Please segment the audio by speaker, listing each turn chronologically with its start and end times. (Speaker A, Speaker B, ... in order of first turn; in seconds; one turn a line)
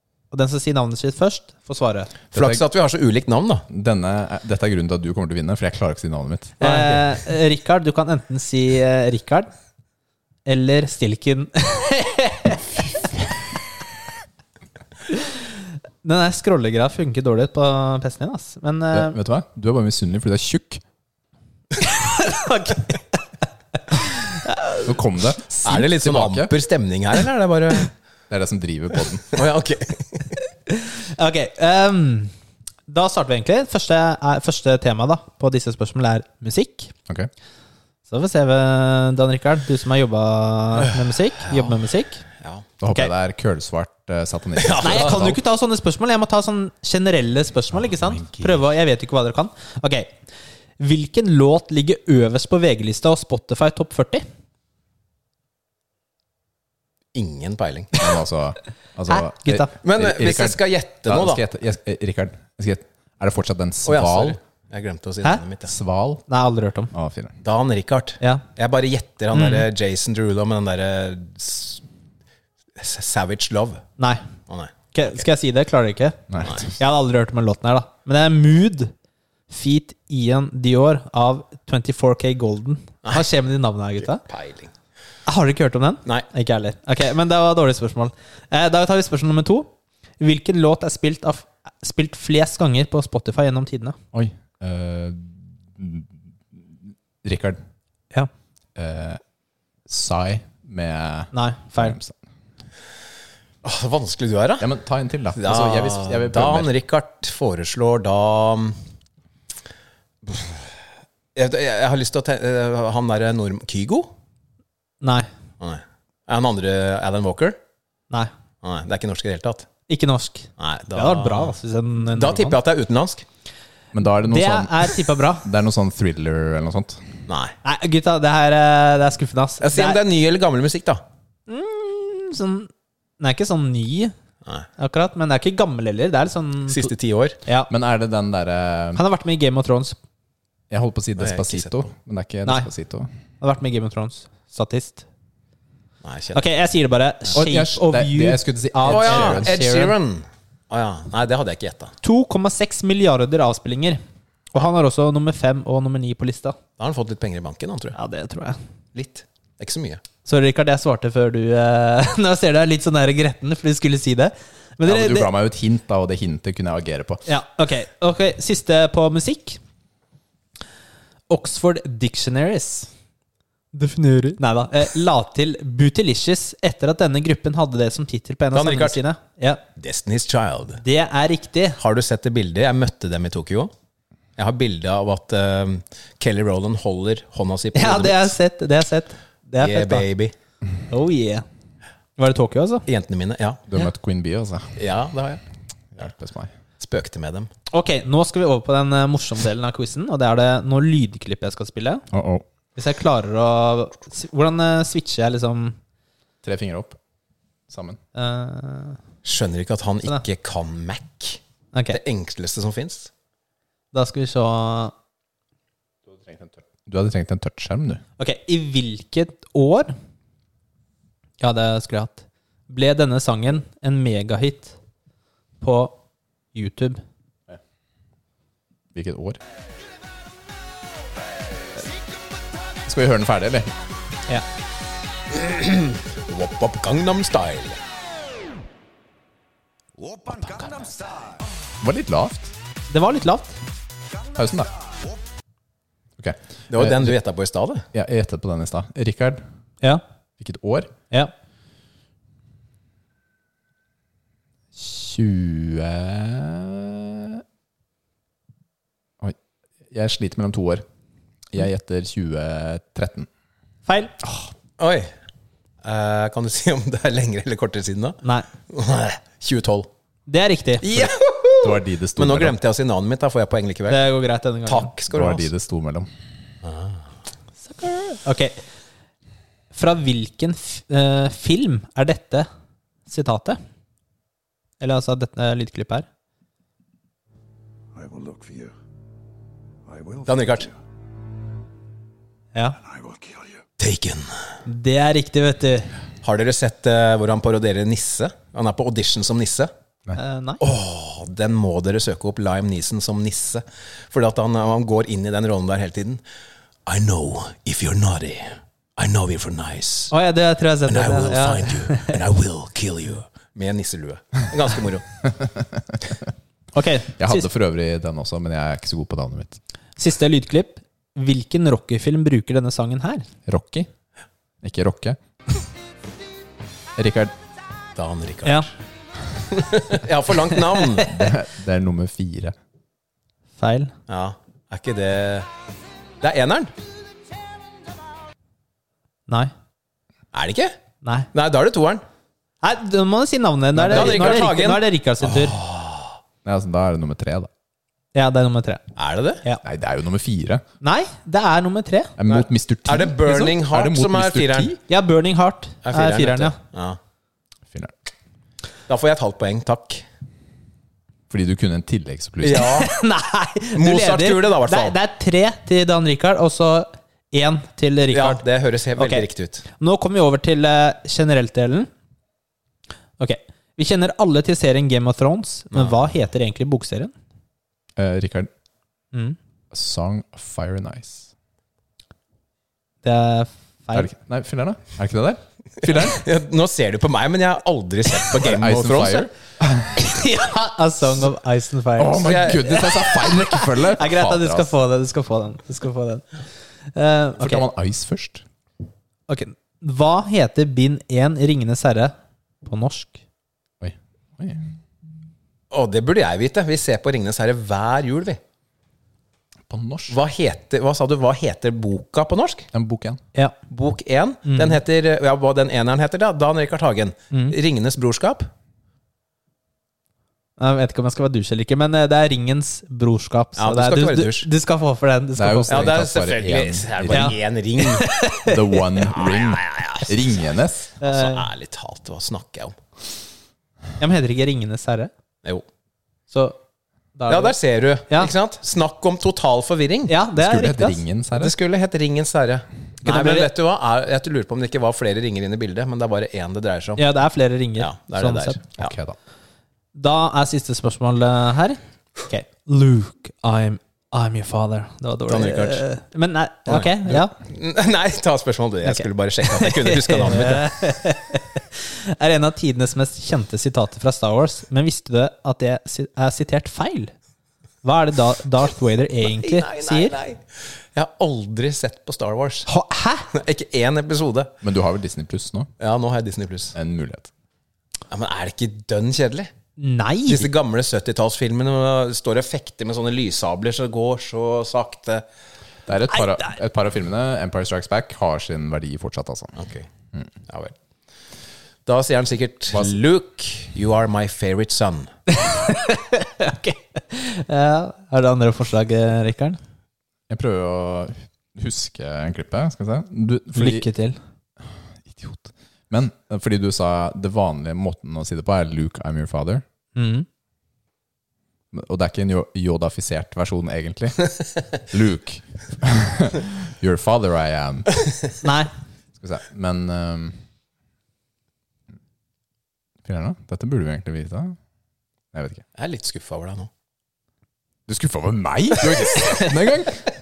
Speaker A: 0.3-2.1
Speaker B: 2.3-3.7
Speaker C: 2.3-2.6
Speaker C: 3.7-6.6
Speaker B: 6.6-7.0
Speaker A: 6.6-9.5
Speaker A: 10.4-12.7
Speaker A: 15.1-15.4
Speaker A: 16.0-19.1
Speaker C: 18.9-20.8
Speaker A: 21.8-23.2
Speaker A: 23.9-24.9
Speaker C: 24.8-26.5
Speaker B: 25.6-27.9
Speaker C: 28.3-29.4
Speaker B: 29.3-30.3
Speaker A: 30.7-32.3
Speaker A: 32.9-36.9
Speaker A: 38.1-42.2
Speaker B: 42.4-42.6
Speaker C: 42.8-45.4
Speaker B: 44.6-45.2
Speaker A: 44.8-50.1
Speaker C: 48.0-48.6
Speaker A: 50.8-54.2
Speaker B: 57.1-58.1
Speaker C: 58.0-64.4
Speaker A: 59.1-59.7
Speaker B: 59.8-61.4
Speaker B: 63.9-65.7
Speaker C: 65.7-66.2
Speaker A: 66.3-66.9
Speaker C: 66.9-67.3
Speaker B: 67.4-71.8
Speaker A: 69.3-69.7
Speaker B: 72.8-73.8
Speaker A: 74.0-74.2
Speaker B: 74.5-75.2
Speaker A: 74.9-78.9
Speaker C: 76.3-76.7
Speaker A: 79.5-84.2
Speaker B: 84.2-84.7
Speaker A: 85.3-94.0
Speaker C: 94.1-97.6
Speaker C: 98.8-99.2
Speaker C: 99.9-102.2
Speaker A: 101.3-102.0
Speaker B: 103.6-104.7
Speaker C: 104.6-106.7
Speaker B: 105.3-108.8
Speaker B: 110.2-110.7
Speaker B: 111.3-114.1
Speaker A: 115.0-115.3
Speaker B: 115.6-117.6
Speaker B: 118.6-119.7
Speaker A: 119.9-122.6
Speaker B: 120.6-121.6
Speaker B: 122.1-123.2
Speaker C: 123.9-127.1
Speaker A: 124.2-125.4
Speaker B: 127.3-127.5
Speaker A: 127.6-130.0
Speaker B: 129.6-131.0
Speaker A: 131.5-134.1
Speaker A: 134.8-136.9
Speaker B: 136.7-137.4
Speaker C: 137.7-139.0
Speaker A: 138.9-140.0
Speaker C: 140.7-143.1
Speaker B: 141.2-141.8
Speaker A: 143.4-145.1
Speaker B: 146.0-146.4
Speaker A: 146.3-149.9
Speaker C: 147.3-149.6
Speaker B: 148.8-151.9
Speaker A: 152.0-154.0
Speaker A: 154.5-156.6
Speaker B: 156.8-157.9
Speaker A: 157.9-158.6
Speaker B: 158.9-160.0
Speaker A: 160.2-165.3
Speaker C: 164.8-167.2
Speaker A: 167.2-169.6
Speaker A: 171.3-172.9
Speaker A: 173.7-179.6
Speaker B: 178.5-179.0
Speaker B: 179.8-180.8
Speaker A: 180.8-181.8
Speaker B: 181.8-183.7
Speaker B: 184.4-188.3
Speaker A: 187.7-190.1
Speaker B: 189.6-190.3
Speaker A: 190.9-191.4
Speaker A: 192.2-192.8
Speaker B: 192.9-193.6
Speaker C: 193.7-194.8
Speaker B: 194.8-195.4
Speaker C: 195.9-196.5
Speaker B: 196.8-197.5
Speaker A: 197.7-202.1
Speaker C: 202.1-202.4
Speaker A: 202.7-205.8
Speaker C: 206.4-207.0
Speaker C: 207.7-208.0
Speaker A: 208.1-209.0
Speaker B: 209.2-211.4
Speaker A: 211.7-212.0
Speaker B: 211.9-213.1
Speaker A: 213.9-214.9
Speaker C: 216.1-218.0
Speaker A: 218.2-219.9
Speaker A: 221.4-224.8
Speaker A: 225.6-226.0
Speaker A: 226.5-227.0
Speaker C: 228.9-229.4
Speaker C: 232.8-233.7
Speaker B: 235.3-237.8
Speaker D: 240.0-241.4
Speaker C: 241.8-242.5
Speaker A: 242.9-243.6
Speaker C: 244.3-244.7
Speaker C: 246.2-247.2
Speaker B: 246.7-247.8
Speaker C: 247.9-249.4
Speaker C: 250.4-250.9
Speaker C: 254.8-257.4
Speaker C: 259.9-260.8
Speaker C: 261.5-263.3
Speaker A: 263.9-264.1
Speaker C: 264.2-264.5
Speaker B: 264.8-265.1
Speaker B: 265.8-269.9
Speaker A: 268.2-268.5
Speaker A: 270.3-271.1
Speaker B: 270.8-274.0
Speaker C: 271.6-272.6
Speaker A: 273.9-274.9
Speaker B: 274.7-275.5
Speaker C: 275.1-276.1
Speaker B: 276.6-277.0
Speaker A: 277.8-278.6
Speaker A: 279.7-282.5
Speaker A: 283.1-283.6
Speaker A: 284.8-286.1
Speaker D: 287.9-288.7
Speaker D: 289.9-290.6
Speaker B: 290.2-290.7
Speaker D: 292.9-293.5
Speaker B: 293.8-294.4
Speaker A: 294.6-295.9
Speaker B: 296.2-299.7
Speaker A: 300.1-300.6
Speaker B: 300.6-306.2
Speaker B: 306.9-310.1
Speaker A: 310.1-312.2
Speaker B: 310.9-315.1
Speaker C: 315.2-316.1
Speaker A: 316.7-317.4
Speaker C: 317.2-319.6
Speaker A: 320.0-323.3
Speaker C: 323.4-323.9
Speaker C: 324.6-325.2
Speaker C: 326.9-327.3
Speaker B: 327.9-328.7
Speaker B: 329.5-331.3
Speaker C: 330.9-332.5
Speaker A: 333.6-333.9
Speaker B: 334.1-335.5
Speaker B: 336.2-336.7
Speaker B: 340.3-340.7
Speaker B: 341.3-342.0
Speaker A: 342.6-345.6
Speaker B: 343.8-346.1
Speaker C: 346.4-347.5
Speaker A: 348.1-348.8
Speaker B: 348.9-349.4
Speaker C: 349.6-350.6
Speaker A: 350.8-352.1
Speaker C: 352.2-354.8
Speaker B: 352.3-354.8
Speaker A: 354.9-356.6
Speaker B: 355.8-357.0
Speaker B: 358.9-360.0
Speaker C: 361.3-362.8
Speaker B: 362.4-362.9
Speaker A: 362.6-368.4
Speaker B: 363.8-365.0
Speaker B: 368.1-369.6
Speaker A: 369.0-371.9
Speaker A: 373.2-377.1
Speaker B: 375.7-376.0
Speaker C: 377.9-378.5
Speaker C: 379.7-381.3
Speaker A: 383.0-384.1
Speaker C: 383.9-386.2
Speaker B: 386.1-389.3
Speaker C: 388.4-390.0
Speaker A: 389.9-396.2
Speaker C: 392.0-394.7
Speaker B: 392.2-392.7
Speaker A: 396.9-397.6
Speaker C: 397.4-398.4
Speaker A: 399.3-403.2
Speaker C: 403.8-404.6
Speaker B: 405.7-408.4
Speaker C: 409.7-410.2
Speaker B: 410.1-412.7
Speaker C: 412.7-413.2
Speaker B: 413.7-418.5
Speaker A: 414.4-414.8
Speaker A: 417.3-417.6
Speaker A: 420.6-425.9
Speaker B: 423.6-424.5
Speaker C: 425.4-427.3
Speaker B: 425.7-428.1
Speaker A: 427.1-428.8
Speaker C: 428.4-430.9
Speaker B: 429.1-430.3
Speaker A: 431.0-431.4
Speaker B: 431.0-432.8
Speaker A: 434.0-435.1
Speaker A: 436.3-436.6
Speaker A: 437.1-437.6
Speaker B: 437.3-440.1
Speaker A: 440.1-441.0
Speaker C: 440.4-441.5
Speaker B: 441.3-447.0
Speaker A: 443.0-443.5
Speaker A: 447.0-448.6
Speaker B: 447.8-448.9
Speaker C: 448.8-449.2
Speaker A: 449.9-457.3
Speaker B: 455.3-455.8
Speaker B: 456.7-460.7
Speaker A: 458.8-467.1
Speaker A: 467.8-470.1
Speaker B: 469.2-470.4
Speaker B: 470.9-472.7
Speaker A: 472.7-473.3
Speaker B: 473.3-474.5
Speaker C: 474.6-475.7
Speaker B: 475.8-476.7
Speaker C: 476.7-477.3
Speaker B: 478.1-479.5
Speaker A: 479.8-480.5
Speaker B: 480.3-485.2
Speaker C: 485.9-489.6
Speaker A: 486.2-486.4
Speaker B: 489.6-489.9
Speaker B: 490.5-490.7
Speaker B: 491.9-495.1
Speaker A: 495.3-499.6
Speaker C: 500.3-503.9
Speaker A: 503.5-504.2
Speaker C: 505.0-509.6
Speaker A: 509.9-510.2
Speaker C: 511.7-518.0
Speaker A: 518.4-518.7
Speaker C: 519.2-520.4
Speaker C: 523.0-524.5
Speaker C: 525.3-525.6
Speaker B: 525.8-526.7
Speaker C: 527.9-530.0